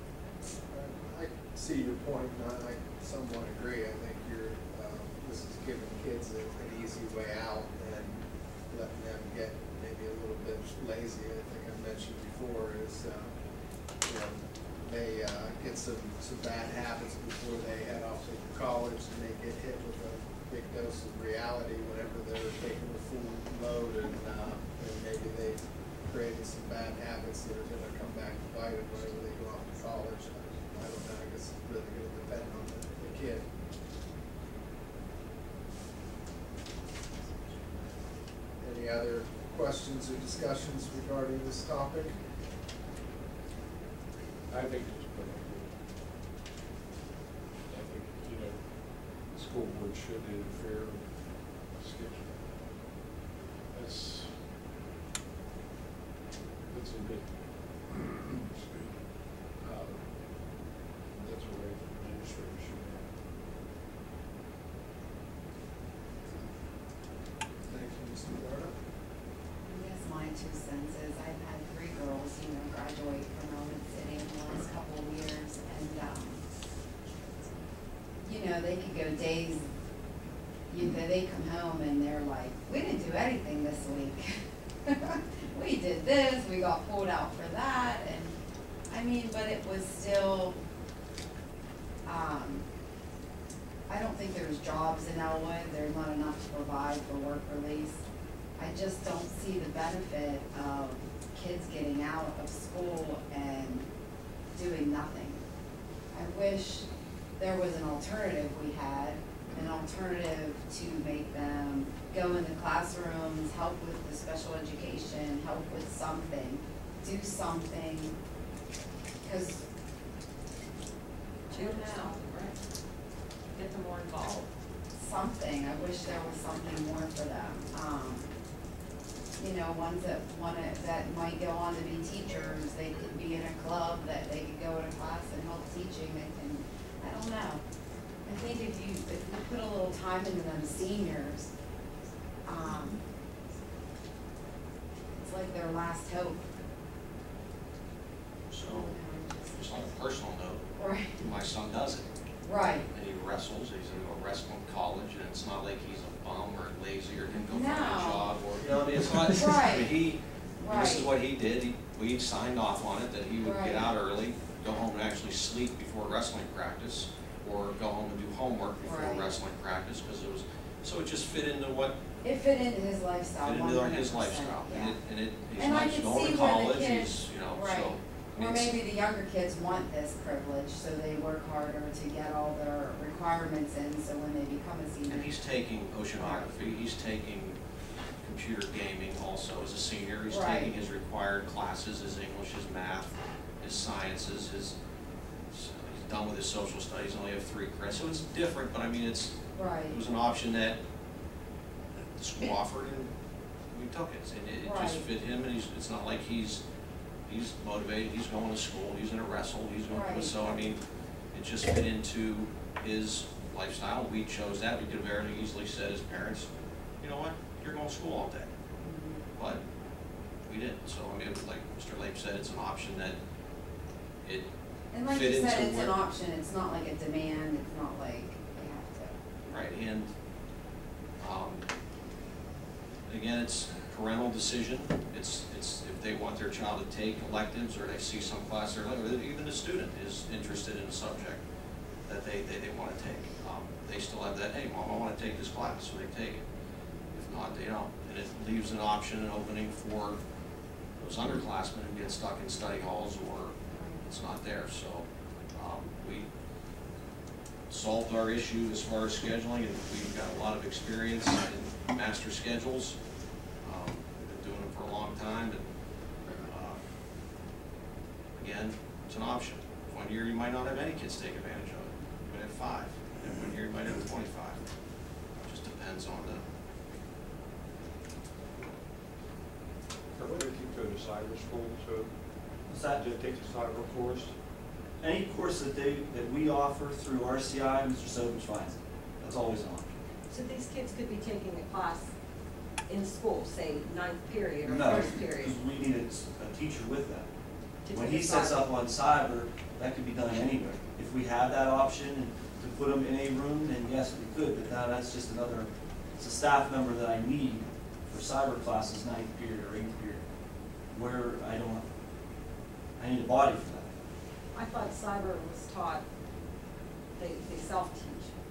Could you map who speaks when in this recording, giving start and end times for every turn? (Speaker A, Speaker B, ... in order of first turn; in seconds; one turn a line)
Speaker A: 0.7-13.3
Speaker A: 14.0-33.5
Speaker A: 38.6-42.1
Speaker B: 44.5-45.7
Speaker B: 47.7-48.7
Speaker B: 49.2-52.5
Speaker B: 53.7-54.4
Speaker B: 56.7-57.3
Speaker B: 59.6-60.1
Speaker B: 61.2-63.1
Speaker A: 67.7-68.7
Speaker C: 69.7-76.4
Speaker C: 78.2-79.7
Speaker C: 80.7-88.4
Speaker C: 88.9-90.6
Speaker C: 92.0-92.7
Speaker C: 93.9-98.0
Speaker C: 98.6-103.9
Speaker C: 104.5-105.4
Speaker C: 106.1-106.9
Speaker C: 107.4-118.2
Speaker C: 119.2-119.6
Speaker C: 121.5-122.2
Speaker D: 121.5-122.6
Speaker D: 123.5-124.5
Speaker C: 125.0-128.3
Speaker C: 129.4-137.6
Speaker C: 138.2-141.5
Speaker C: 142.4-143.1
Speaker C: 145.1-146.5
Speaker E: 148.5-149.0
Speaker C: 148.7-149.9
Speaker E: 149.5-152.1
Speaker C: 150.8-151.2
Speaker C: 152.4-152.9
Speaker E: 152.9-172.0
Speaker C: 157.3-158.4
Speaker C: 159.2-160.0
Speaker C: 160.6-161.1
Speaker C: 163.4-163.9
Speaker C: 168.8-169.4
Speaker C: 172.2-175.0
Speaker E: 173.4-178.8
Speaker C: 175.5-185.3
Speaker E: 185.1-187.6
Speaker C: 186.1-186.4
Speaker E: 188.2-194.8
Speaker C: 190.3-190.7
Speaker E: 195.5-200.8
Speaker C: 199.6-200.0
Speaker E: 202.0-203.1
Speaker E: 203.7-206.6
Speaker C: 204.6-205.1
Speaker E: 207.3-210.8
Speaker C: 209.9-210.3
Speaker E: 211.3-216.5
Speaker E: 217.0-218.5
Speaker C: 218.8-219.2
Speaker E: 219.4-219.6
Speaker E: 220.5-223.2
Speaker C: 224.9-229.2
Speaker E: 225.1-226.0
Speaker E: 229.5-230.1
Speaker E: 231.2-231.6
Speaker E: 233.1-241.4
Speaker E: 242.1-246.4
Speaker E: 247.2-250.2
Speaker E: 251.0-256.3
Speaker E: 257.7-263.0
Speaker E: 263.6-265.7
Speaker E: 266.3-266.8
Speaker E: 268.4-274.6
Speaker E: 275.4-276.4
Speaker B: 280.2-282.1
Speaker F: 282.7-283.0
Speaker B: 283.0-284.3
Speaker F: 285.0-290.0
Speaker D: 290.3-292.1
Speaker D: 292.9-295.6
Speaker F: 294.6-297.3
Speaker D: 297.9-298.7
Speaker F: 297.9-310.2
Speaker F: 310.9-311.9
Speaker F: 313.0-313.9
Speaker D: 314.5-316.0
Speaker D: 317.2-318.3